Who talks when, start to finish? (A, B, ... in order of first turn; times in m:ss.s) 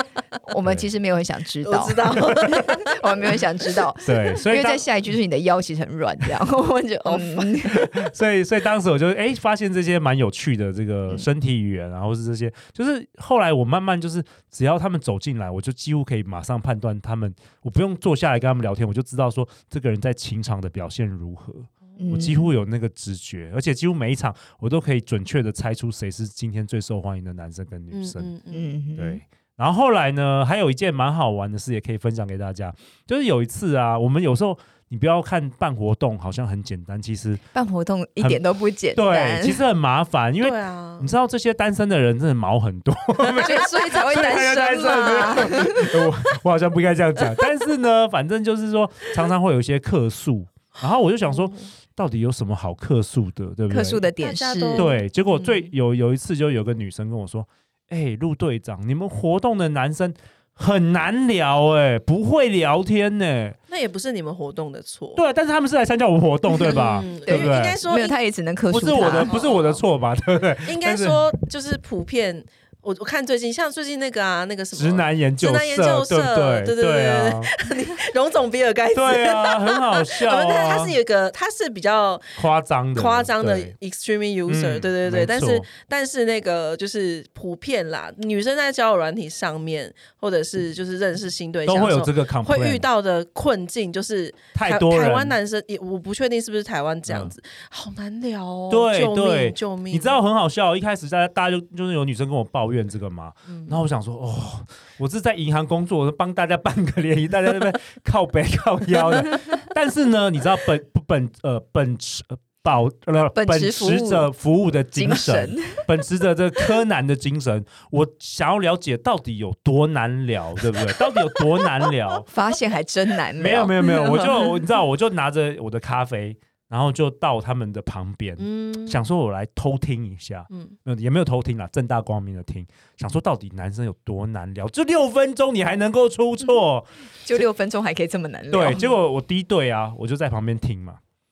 0:00.4-0:07.9 A
0:01.6-0:03.8 B
0:04.0-0:04.8 C
0:07.1-0:07.5 B
0:07.6-0:28.3 C
0:22.0-0:22.5 A
0:27.9-0:28.7 B
0:28.5-0:29.2 A
0:29.0-0:37.4 C
0:37.5-0:39.6 A
0:38.9-0:54.0 C
0:40.4-0:41.1 B
0:43.3-0:45.7 B
0:43.4-0:46.0 A
0:51.3-0:51.7 B
0:53.7-0:54.9 A
0:54.2-0:55.7 B
0:54.7-1:03.6 C
1:03.7-1:05.2 B
1:05.2-1:07.8 C
1:06.5-1:08.2 B
1:07.2-1:09.4 A
1:08.7-1:11.3 C
1:09.2-1:09.8 B
1:10.6-1:40.2 B
1:14.7-1:17.5 C
1:18.9-1:21.0 C
1:22.4-1:23.7 C
1:24.5-1:25.7 C
1:31.6-1:32.8 C
1:34.5-1:35.4 C
1:37.1-1:37.3 C
1:38.7-2:02.3 C
1:43.5-1:43.8 B
1:53.3-1:54.3 A
1:54.9-1:55.8 A
2:02.2-2:04.1 A
2:03.4-2:16.9 C
2:04.0-2:04.5 B
2:08.4-2:09.0 B
2:10.5-2:10.8 B
2:17.2-2:18.9 A
2:18.5-2:21.0 C